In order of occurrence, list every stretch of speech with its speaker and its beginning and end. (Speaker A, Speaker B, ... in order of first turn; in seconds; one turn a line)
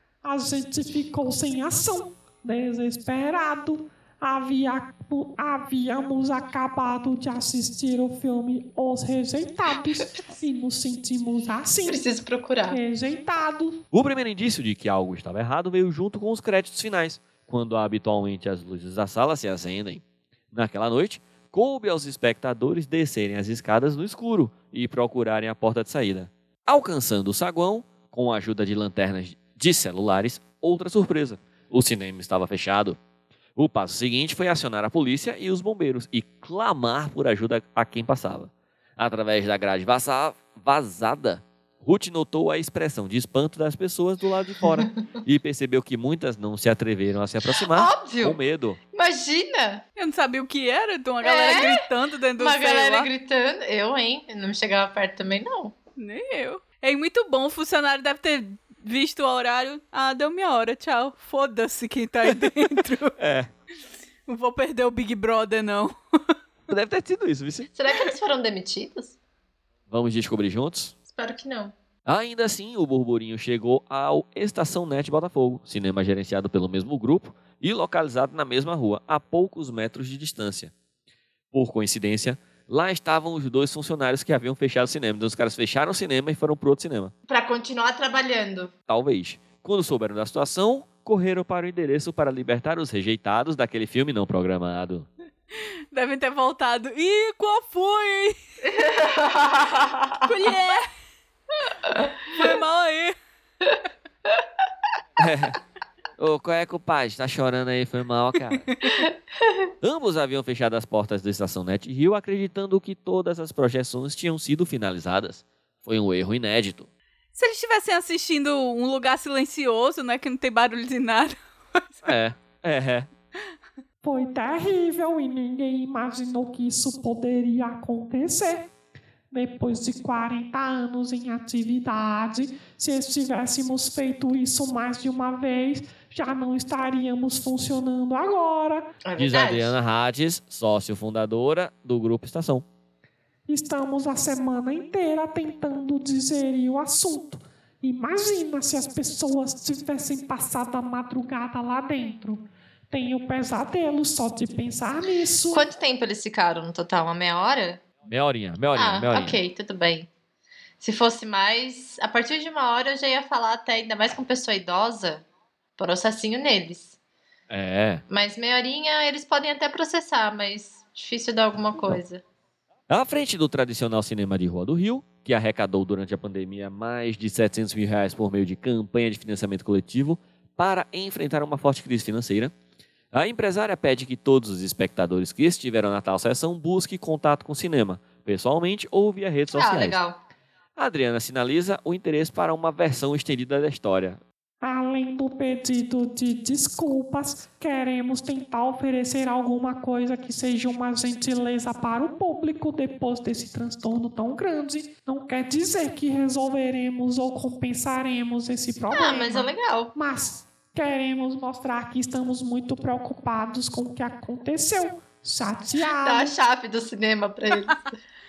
Speaker A: 0.2-12.0
Speaker B: 11.9-12.8
Speaker A: 12.7-13.8
Speaker C: 13.9-33.0
Speaker C: 33.6-48.8
Speaker B: 47.7-48.4
Speaker B: 48.9-49.8
Speaker D: 50.0-53.1
Speaker B: 51.2-51.9
Speaker B: 52.4-55.8
Speaker D: 56.0-63.2
Speaker C: 63.2-63.5
Speaker D: 64.3-65.9
Speaker C: 66.7-67.7
Speaker B: 67.7-69.2
Speaker C: 69.9-70.9
Speaker B: 71.1-71.7
Speaker C: 72.1-80.7
Speaker C: 81.5-87.1
Speaker B: 87.3-88.7
Speaker C: 88.9-95.1
Speaker D: 95.9-98.4
Speaker B: 98.6-100.3
Speaker D: 100.2-100.9
Speaker B: 101.8-102.4
Speaker D: 102.3-103.2
Speaker C: 105.2-105.6
Speaker C: 106.2-108.7
Speaker B: 108.8-109.7
Speaker C: 109.8-116.9
Speaker D: 117.4-121.4
Speaker C: 122.0-123.1
Speaker A: 124.0-128.7
Speaker A: 129.3-138.9
Speaker B: 139.1-139.8
Speaker C: 139.2-142.7
Speaker A: 143.5-155.7
Speaker B: 155.5-157.8
Speaker C: 158.1-159.4
Speaker B: 158.7-160.1
Speaker B: 160.8-165.3
Speaker B: 165.8-167.0
Speaker C: 167.5-168.0
Speaker B: 168.1-172.2
Speaker C: 172.9-182.5
Speaker C: 183.1-190.0
Speaker B: 189.5-190.2
Speaker C: 190.8-194.2
Speaker A: 194.6-216.3
Speaker B: 208.9-209.9
Speaker B: 216.0-218.0